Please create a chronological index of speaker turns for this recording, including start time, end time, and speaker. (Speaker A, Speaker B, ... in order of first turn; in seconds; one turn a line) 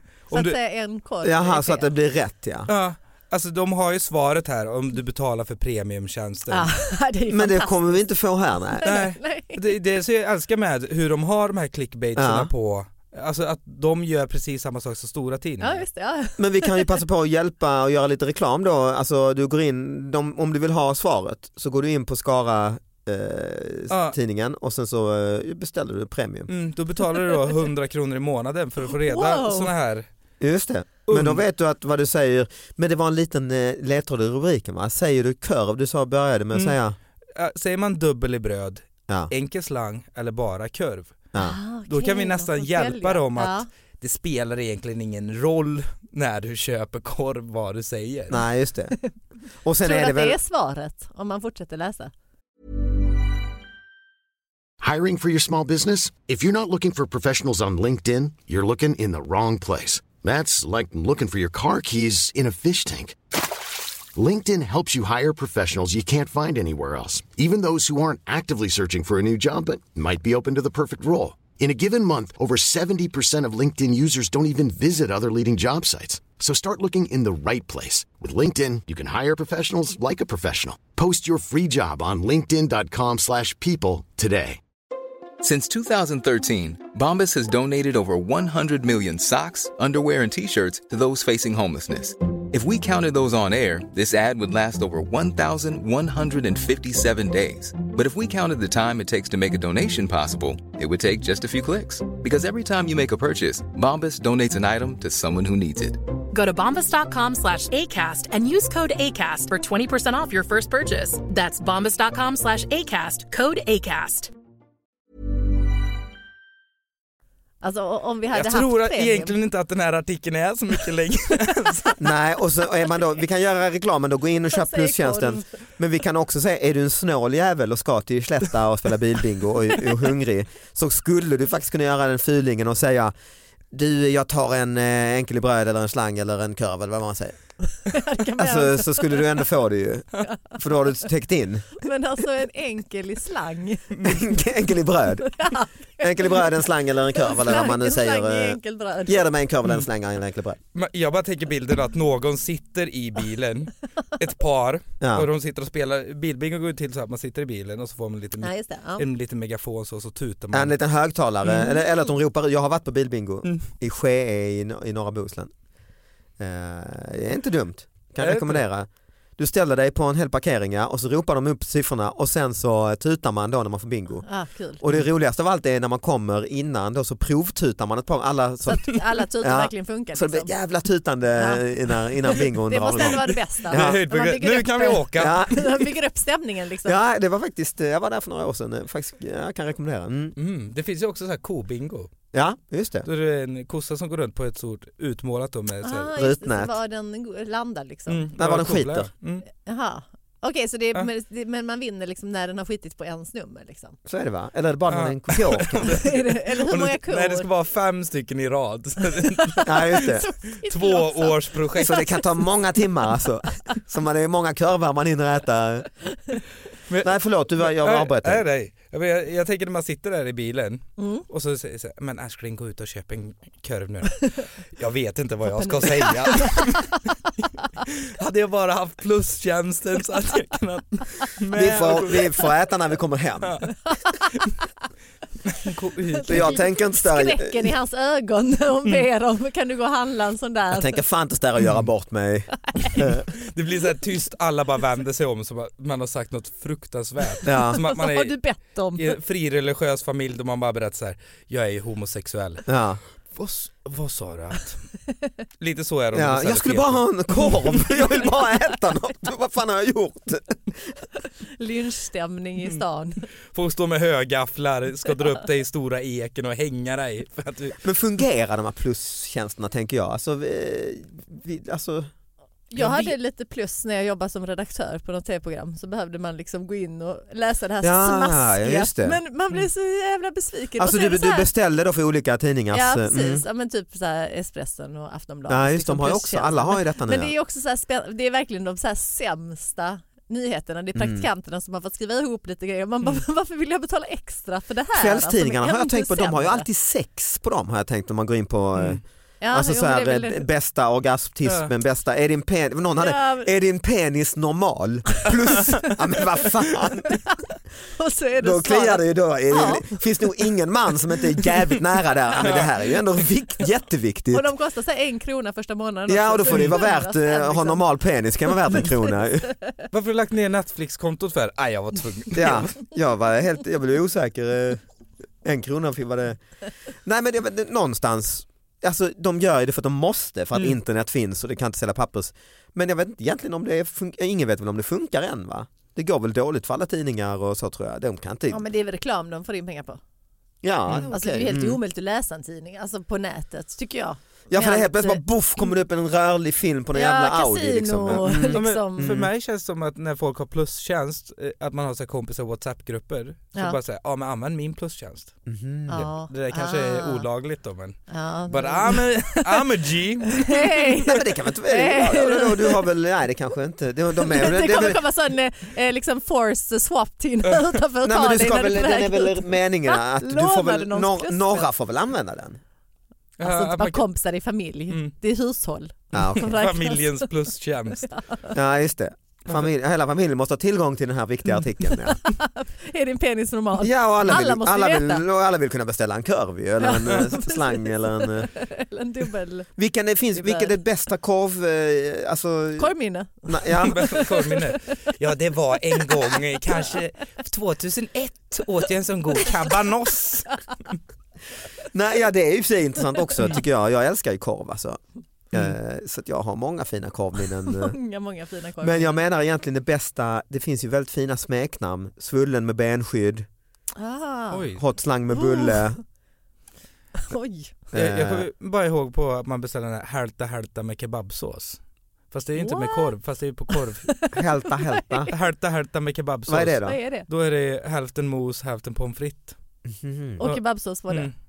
Speaker A: 0.3-0.6
Speaker B: 0.3-1.9
Speaker C: 1.2-2.7
Speaker A: 2.7-6.7
Speaker B: 6.5-8.0
Speaker C: 7.3-8.9
Speaker B: 8.7-9.7
Speaker A: 8.8-15.8
Speaker C: 12.2-12.5
Speaker B: 15.6-17.0
Speaker C: 16.4-26.5
Speaker A: 23.9-24.1
Speaker A: 26.5-30.0
Speaker B: 29.0-29.7
Speaker C: 30.4-37.0
Speaker A: 31.1-31.4
Speaker A: 36.5-36.8
Speaker A: 37.3-41.2
Speaker B: 41.4-43.7
Speaker A: 41.9-48.3
Speaker C: 48.3-49.0
Speaker C: 49.6-50.4
Speaker B: 49.8-52.1
Speaker D: 54.8-63.2
Speaker D: 64.1-84.6
Speaker E: 85.4-106.0
Speaker F: 106.3-114.3
Speaker B: 117.6-119.3
Speaker A: 118.3-122.0
Speaker C: 122.0-133.1
Speaker B: 124.5-125.4
Speaker C: 133.7-137.3
Speaker B: 137.9-139.3
Speaker C: 138.4-140.1
Speaker C: 140.6-141.7
Speaker B: 141.8-144.1
Speaker C: 144.0-145.3
Speaker B: 145.3-146.6
Speaker C: 146.0-150.6
Speaker B: 147.2-149.3
Speaker A: 150.7-160.7
Speaker C: 155.0-155.3
Speaker B: 158.4-159.0
Speaker C: 160.5-165.5
Speaker C: 166.4-174.2
Speaker A: 168.2-168.6
Speaker B: 174.2-174.8
Speaker C: 174.8-184.0
Speaker B: 178.7-180.5
Speaker B: 181.4-181.6
Speaker B: 182.2-186.9
Speaker A: 183.0-185.4
Speaker C: 185.2-185.9
Speaker C: 186.8-190.3
Speaker A: 190.3-192.1
Speaker C: 192.3-193.1
Speaker A: 193.0-196.1
Speaker B: 195.8-198.2
Speaker C: 196.2-196.8
Speaker A: 198.1-199.4
Speaker C: 198.4-199.1
Speaker B: 199.6-204.0
Speaker C: 204.1-206.0
Speaker A: 204.9-212.1
Speaker B: 205.8-207.5
Speaker B: 209.4-212.2
Speaker C: 209.6-210.2
Speaker C: 211.8-215.9
Speaker A: 216.9-226.9
Speaker C: 217.0-218.4
Speaker B: 221.0-221.2
Speaker B: 225.5-226.8
Speaker A: 227.8-232.3
Speaker C: 231.5-233.6
Speaker A: 233.4-233.7
Speaker A: 235.5-236.6
Speaker B: 236.1-240.9
Speaker C: 236.3-237.7
Speaker C: 240.7-243.2
Speaker A: 243.4-248.3
Speaker C: 247.4-247.8
Speaker B: 247.7-249.1
Speaker A: 248.9-252.6
Speaker C: 252.7-253.0
Speaker A: 253.3-254.8
Speaker A: 255.6-257.8
Speaker C: 256.1-260.7
Speaker B: 261.6-263.2
Speaker A: 263.5-267.8
Speaker C: 267.8-272.1
Speaker B: 272.7-281.5
Speaker C: 272.8-273.1
Speaker C: 277.8-279.2
Speaker C: 280.8-283.4
Speaker B: 282.7-296.6
Speaker C: 285.5-287.3
Speaker C: 290.9-291.3
Speaker C: 294.9-307.2
Speaker B: 299.4-300.4
Speaker B: 303.0-303.5
Speaker B: 308.0-310.0
Speaker C: 308.4-314.5
Speaker A: 312.4-312.7
Speaker B: 314.3-317.8
Speaker C: 316.1-319.5
Speaker A: 316.5-316.8
Speaker A: 319.9-322.7
Speaker C: 322.3-324.8
Speaker C: 325.4-326.4
Speaker C: 327.0-338.6
Speaker B: 338.5-340.0
Speaker C: 340.6-341.8
Speaker B: 341.1-345.7
Speaker C: 344.5-349.3
Speaker B: 346.9-349.2
Speaker A: 348.1-355.3
Speaker C: 355.5-356.1
Speaker B: 355.9-357.2
Speaker A: 355.9-358.0
Speaker B: 358.1-359.6
Speaker A: 358.5-361.0
Speaker B: 360.4-362.8
Speaker C: 361.1-365.0
Speaker B: 364.2-371.7
Speaker C: 368.0-372.6
Speaker A: 373.4-374.1
Speaker B: 373.4-377.2
Speaker C: 376.1-376.5
Speaker A: 376.4-378.1
Speaker B: 378.1-378.5
Speaker C: 378.5-382.2
Speaker B: 382.1-385.2
Speaker C: 383.8-388.5
Speaker B: 386.8-389.7
Speaker C: 389.8-392.9
Speaker B: 390.4-390.7
Speaker B: 392.8-394.6
Speaker C: 393.5-394.2
Speaker A: 393.8-400.6
Speaker C: 401.9-405.0
Speaker C: 405.5-408.0
Speaker B: 407.7-409.2
Speaker C: 408.8-413.5
Speaker B: 413.9-414.7
Speaker A: 414.5-414.8
Speaker C: 414.8-416.0
Speaker B: 415.3-415.9
Speaker B: 417.3-417.7
Speaker C: 417.9-418.4
Speaker A: 417.9-421.8
Speaker A: 422.3-424.1
Speaker B: 422.6-423.1
Speaker C: 424.3-425.3
Speaker A: 425.3-429.6
Speaker C: 426.5-427.0
Speaker B: 426.8-427.2
Speaker C: 429.9-430.4
Speaker B: 430.4-431.3
Speaker A: 430.4-431.3